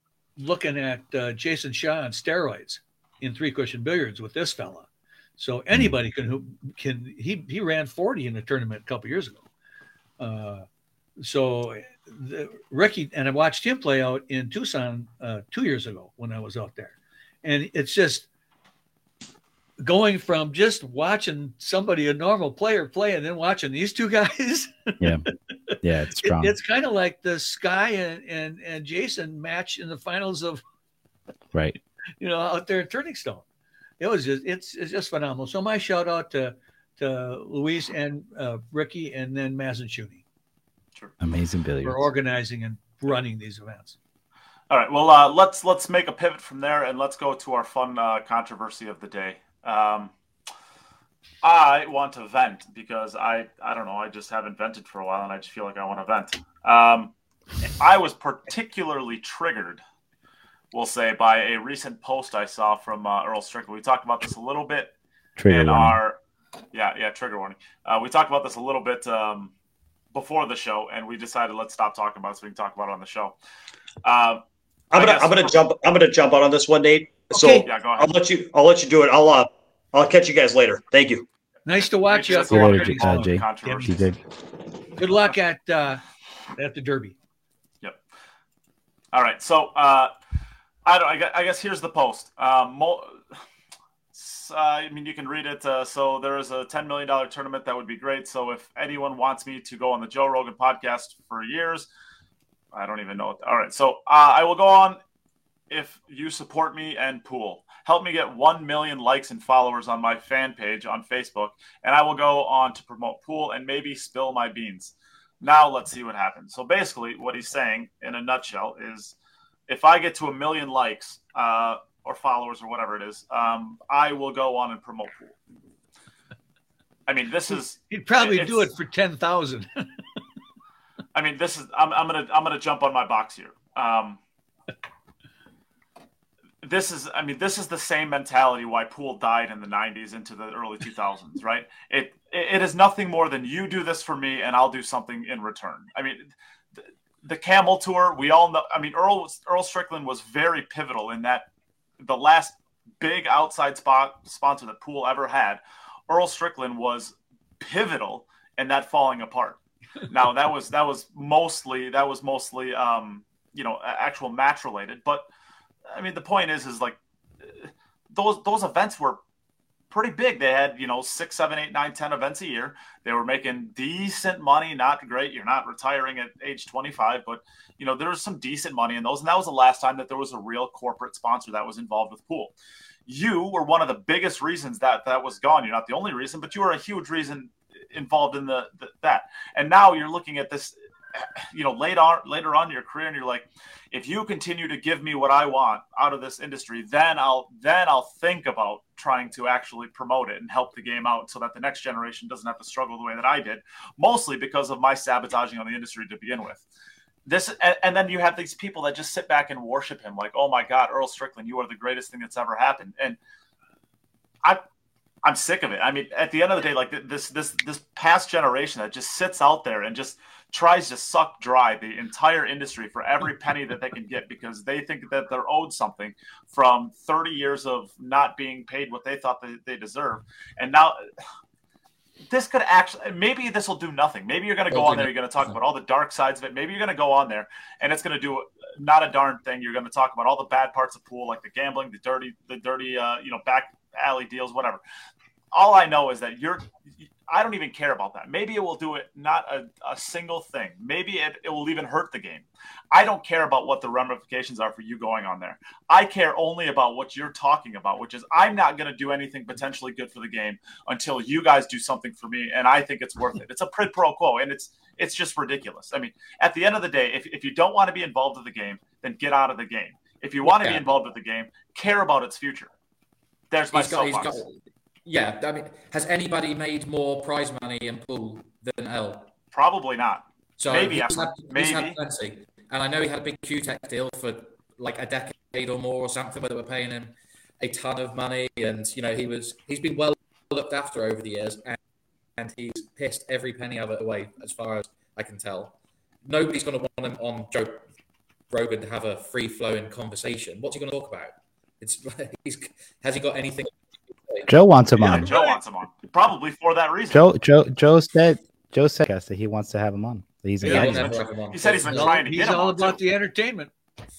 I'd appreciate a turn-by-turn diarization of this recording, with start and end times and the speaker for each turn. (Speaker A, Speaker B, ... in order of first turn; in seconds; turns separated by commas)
Speaker A: 0.4-9.4, Speaker A: 10.2-10.7, Speaker A: 11.2-18.3, Speaker A: 19.8-30.6, Speaker B: 25.8-26.5, Speaker A: 32.2-33.4, Speaker A: 34.0-40.2, Speaker B: 41.2-42.1, Speaker A: 41.8-44.0, Speaker C: 44.7-50.1, Speaker C: 51.4-59.8, Speaker C: 60.7-64.9, Speaker B: 65.4-66.0, Speaker C: 65.5-66.2, Speaker C: 66.7-69.5, Speaker C: 70.1-73.3, Speaker C: 74.0-75.6, Speaker D: 74.9-81.2, Speaker A: 77.3-77.6, Speaker C: 77.6-78.1, Speaker A: 81.7-84.1, Speaker C: 82.0-84.1, Speaker B: 82.5-84.2, Speaker A: 85.0-86.0, Speaker A: 86.5-87.1, Speaker C: 89.1-90.1, Speaker C: 90.9-93.2, Speaker C: 94.1-101.9, Speaker C: 102.7-105.0, Speaker C: 105.7-119.2, Speaker C: 119.7-125.4, Speaker C: 127.1-128.7, Speaker A: 127.9-129.9, Speaker C: 131.1-134.2, Speaker C: 136.6-146.3, Speaker C: 147.2-151.5, Speaker C: 152.0-165.2, Speaker C: 165.9-167.0, Speaker C: 167.5-169.2, Speaker C: 169.9-182.5, Speaker C: 183.1-206.6, Speaker C: 207.2-213.2, Speaker C: 215.2-231.0, Speaker C: 232.3-244.8, Speaker E: 234.7-235.6, Speaker C: 245.5-272.7, Speaker E: 270.4-270.9, Speaker C: 273.5-274.4, Speaker E: 273.7-279.3, Speaker C: 279.5-282.0, Speaker E: 280.6-291.8, Speaker E: 292.4-297.8, Speaker E: 298.5-303.7, Speaker E: 304.2-304.5, Speaker B: 304.5-305.3, Speaker C: 304.9-307.2, Speaker A: 305.1-305.6, Speaker B: 307.1-311.2, Speaker A: 310.6-311.2, Speaker E: 310.6-312.2, Speaker C: 311.5-313.0, Speaker A: 311.8-313.7